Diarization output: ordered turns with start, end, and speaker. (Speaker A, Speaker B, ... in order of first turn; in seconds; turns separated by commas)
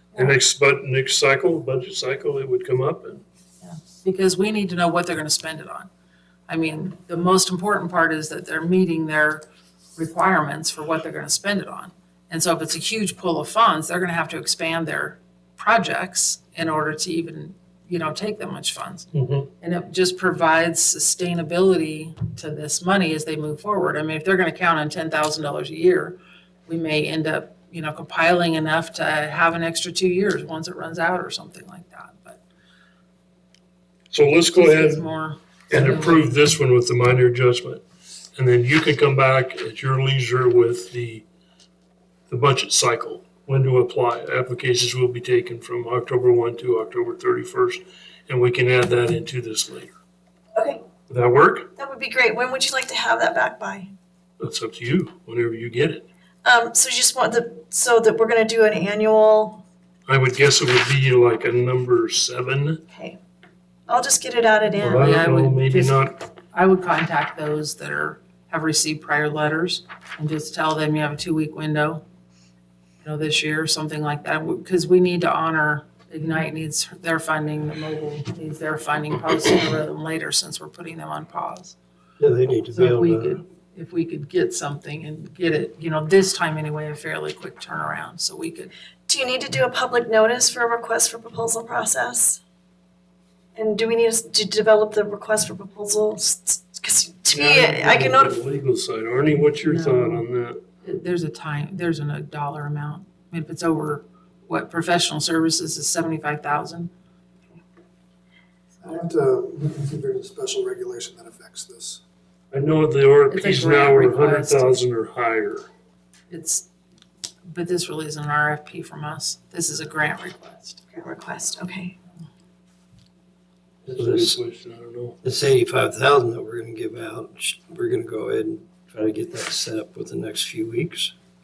Speaker A: 0.2-3.2, Speaker B: 3.6-5.9, Speaker B: 6.5-9.4, Speaker B: 10.0-19.1, Speaker A: 19.1-19.5, Speaker B: 19.6-26.2, Speaker B: 26.7-32.4, Speaker A: 34.1-35.0, Speaker B: 34.5-36.3, Speaker A: 35.7-37.8, Speaker A: 38.4-41.2, Speaker A: 42.3-49.9, Speaker C: 50.6-50.8, Speaker A: 51.1-51.7, Speaker C: 51.8-53.9, Speaker A: 54.4-56.1, Speaker C: 56.4-59.6, Speaker A: 60.1-62.8, Speaker C: 62.9-63.2, Speaker C: 63.9-65.2, Speaker A: 64.8-66.1, Speaker B: 64.9-72.0, Speaker B: 73.0-81.8, Speaker D: 82.2-83.4, Speaker B: 82.7-88.7, Speaker C: 89.1-92.4, Speaker C: 93.6-98.4, Speaker A: 97.3-100.6, Speaker B: 99.6-100.3, Speaker B: 100.8-106.9, Speaker E: 108.8-112.0, Speaker A: 112.5-115.7, Speaker B: 113.3-114.8, Speaker B: 116.3-116.7, Speaker B: 117.5-120.8, Speaker C: 120.9-122.0, Speaker A: 123.8-125.2, Speaker D: 123.9-124.4, Speaker D: 125.2-131.1